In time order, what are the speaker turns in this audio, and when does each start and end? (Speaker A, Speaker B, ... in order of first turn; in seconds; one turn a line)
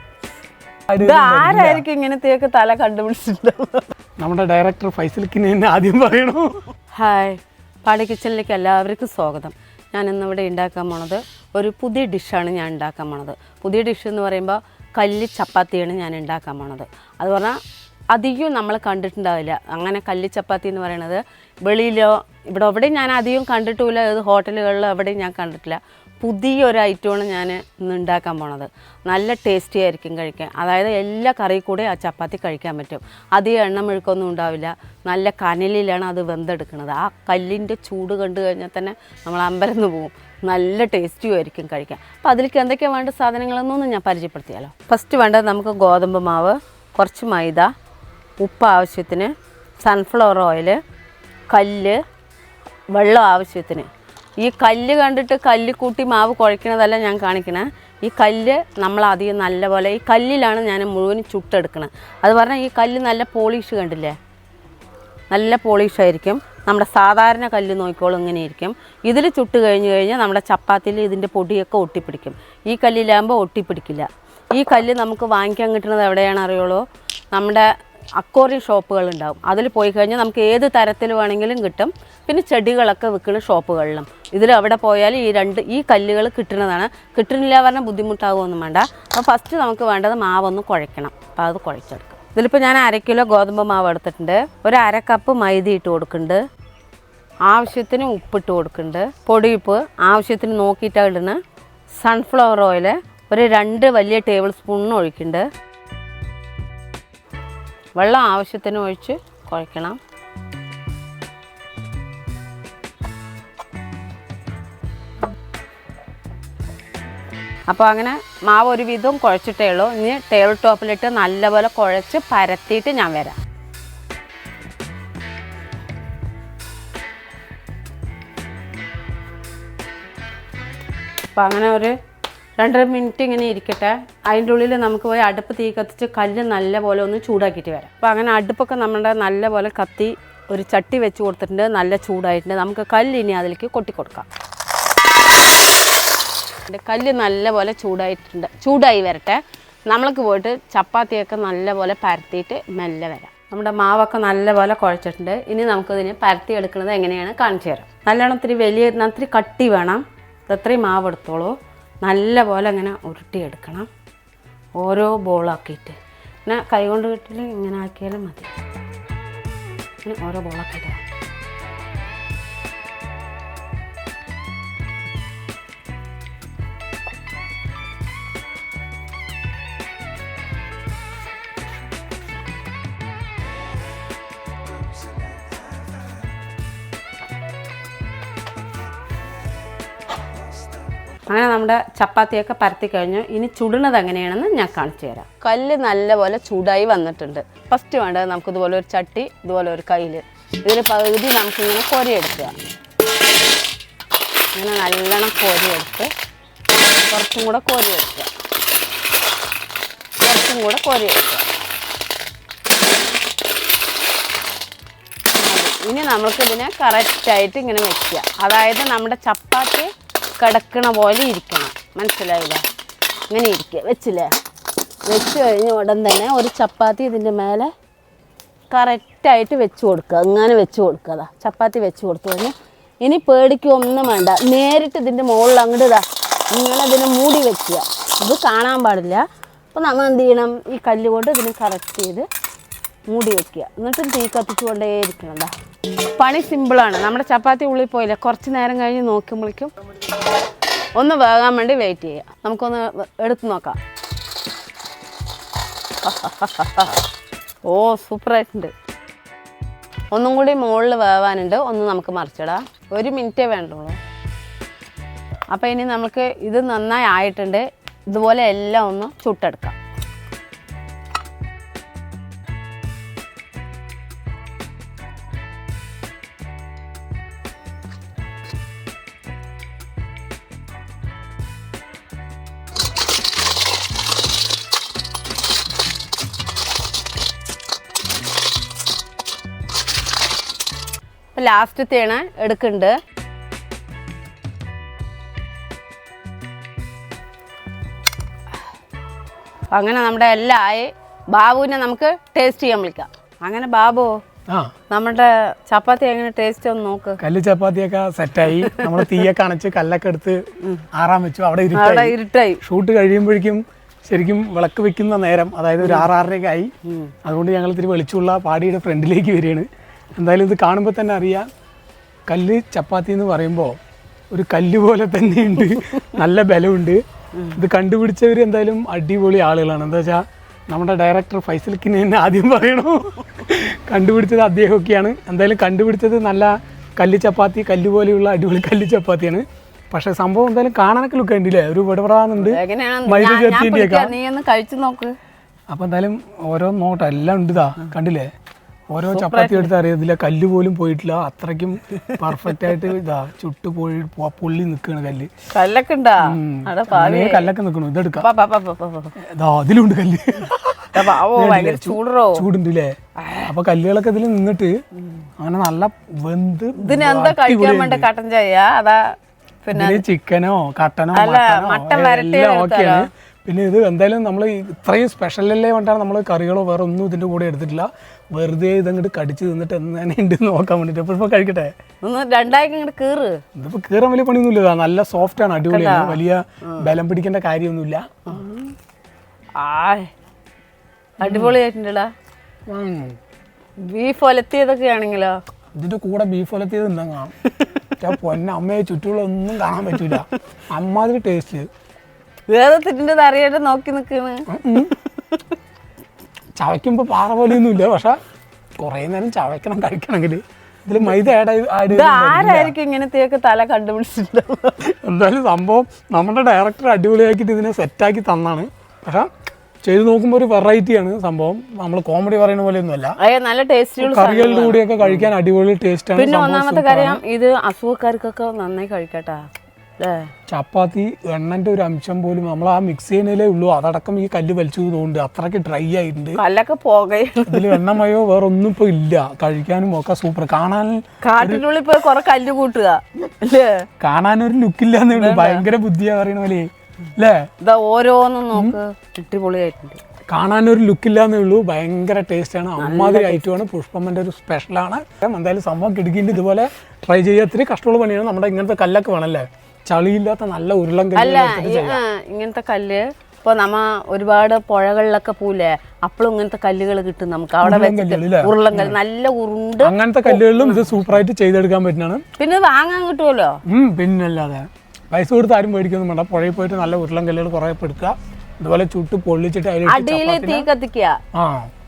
Speaker A: 0.9-1.8
Speaker B: 1.0-3.9
Speaker A: 4.2-6.6
Speaker B: 7.0-17.6
Speaker B: 18.1-47.7
Speaker B: 48.4-49.3
Speaker B: 49.8-50.8
Speaker B: 51.5-52.0
Speaker B: 52.9-53.9
Speaker B: 54.4-64.2
Speaker B: 65.3-77.7
Speaker B: 78.2-96.4
Speaker B: 97.5-101.4
Speaker B: 102.0-105.5
Speaker B: 108.0-110.0
Speaker B: 117.7-123.4
Speaker B: 131.3-131.9
Speaker B: 132.6-144.3
Speaker B: 146.7-163.9
Speaker B: 164.8-168.5
Speaker B: 170.0-171.0
Speaker B: 191.3-202.5
Speaker B: 204.6-206.1
Speaker B: 207.1-208.3
Speaker B: 210.2-211.4
Speaker B: 215.4-222.6
Speaker B: 223.3-224.3
Speaker B: 225.1-227.7
Speaker B: 228.7-242.3
Speaker B: 243.1-245.5
Speaker B: 246.2-249.7
Speaker B: 250.9-253.8
Speaker B: 256.0-257.0
Speaker B: 257.6-258.7
Speaker B: 260.1-264.0
Speaker B: 265.5-269.8
Speaker B: 291.3-292.9
Speaker B: 299.7-304.2
Speaker B: 304.9-307.2
Speaker A: 307.2-310.4
Speaker B: 308.6-309.0
Speaker A: 310.9-316.7
Speaker B: 311.7-312.6
Speaker B: 315.8-316.1
Speaker B: 316.9-317.1
Speaker A: 317.2-321.5
Speaker A: 322.3-323.8
Speaker A: 324.3-327.0
Speaker A: 327.5-344.1
Speaker B: 342.4-345.1
Speaker A: 345.7-348.3
Speaker A: 348.9-355.3
Speaker B: 349.1-349.7
Speaker B: 352.1-352.8
Speaker B: 355.5-357.5
Speaker A: 356.2-358.2
Speaker B: 358.2-359.1
Speaker A: 359.2-364.7
Speaker B: 360.9-362.4
Speaker B: 363.2-363.5
Speaker A: 365.4-368.1
Speaker B: 366.8-370.0
Speaker A: 369.7-381.7
Speaker B: 371.1-373.1
Speaker B: 382.0-383.4
Speaker A: 383.5-388.4
Speaker B: 385.7-386.9
Speaker B: 388.3-388.7
Speaker B: 389.6-390.1
Speaker B: 391.2-392.1
Speaker A: 391.2-391.6
Speaker A: 392.7-393.2
Speaker B: 393.8-395.4
Speaker A: 395.7-397.3
Speaker A: 398.0-401.7
Speaker B: 402.5-405.4
Speaker A: 404.5-404.9
Speaker A: 406.6-408.2
Speaker A: 408.8-412.7
Speaker B: 411.9-414.8
Speaker A: 414.8-419.3
Speaker A: 419.8-423.2
Speaker B: 423.2-425.3
Speaker A: 424.0-427.2
Speaker B: 426.1-429.4
Speaker B: 430.0-430.3
Speaker A: 430.5-436.4
Speaker B: 436.4-437.9
Speaker A: 437.4-441.6
Speaker B: 441.2-443.9
Speaker A: 444.0-447.4
Speaker B: 445.1-445.6
Speaker B: 447.6-450.0
Speaker A: 448.5-448.8
Speaker A: 450.3-462.0
Speaker B: 452.8-453.5
Speaker B: 461.1-470.9
Speaker A: 467.6-469.0
Speaker A: 469.8-472.2
Speaker B: 472.4-473.6
Speaker A: 473.7-480.7
Speaker B: 479.9-481.2
Speaker A: 481.3-481.7